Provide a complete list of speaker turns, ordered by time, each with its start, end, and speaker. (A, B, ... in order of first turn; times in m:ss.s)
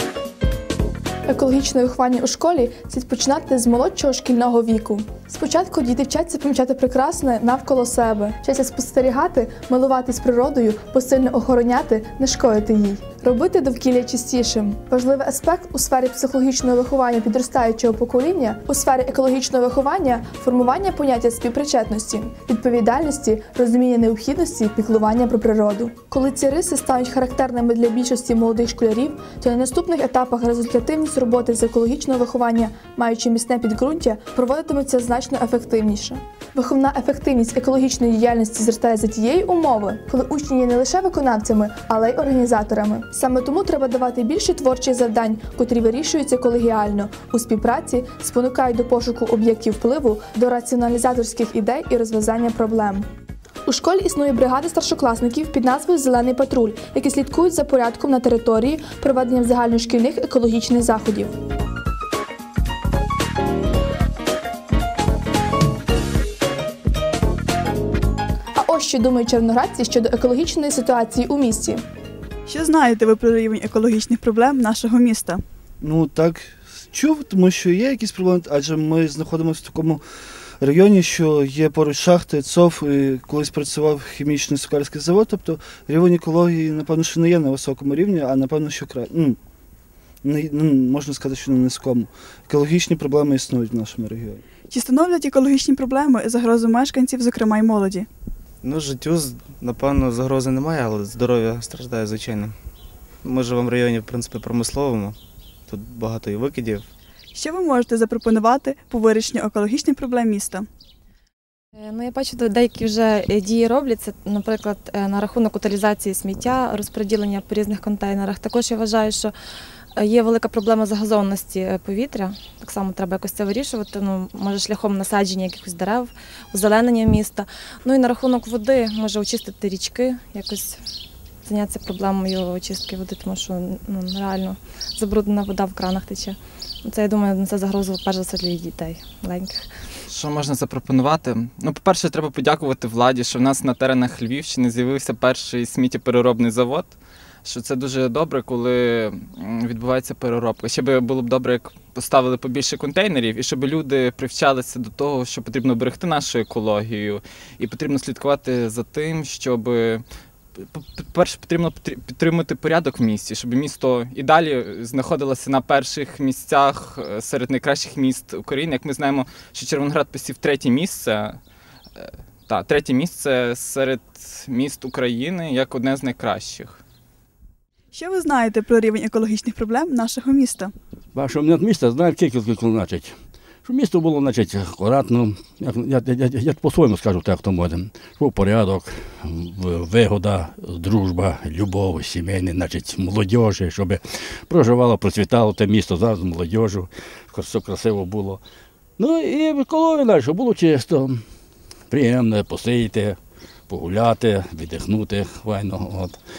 0:01.3-0:53.1 A
0:53.7-1:01.3 A
1:08.6-1:11.8 A
1:12.5-1:15.4 B
1:15.8-1:20.0 C
1:20.6-1:29.4 C
1:30.2-1:34.4 C
1:34.7-1:38.1 B
1:38.6-1:42.6 D
1:43.2-1:45.2 D
1:45.7-1:46.9 D
1:47.4-1:50.7 B
1:51.8-1:59.3 E
2:00.0-2:10.8 E
2:11.5-2:19.7 E
2:20.1-2:40.0 F
2:40.6-2:51.4 F
2:52.0-2:56.8 F
2:57.9-3:00.7 B
3:01.2-3:03.1 G
3:03.6-3:18.4 G
3:19.0-3:21.2 G
3:21.9-3:23.2 G
3:23.7-3:26.2 G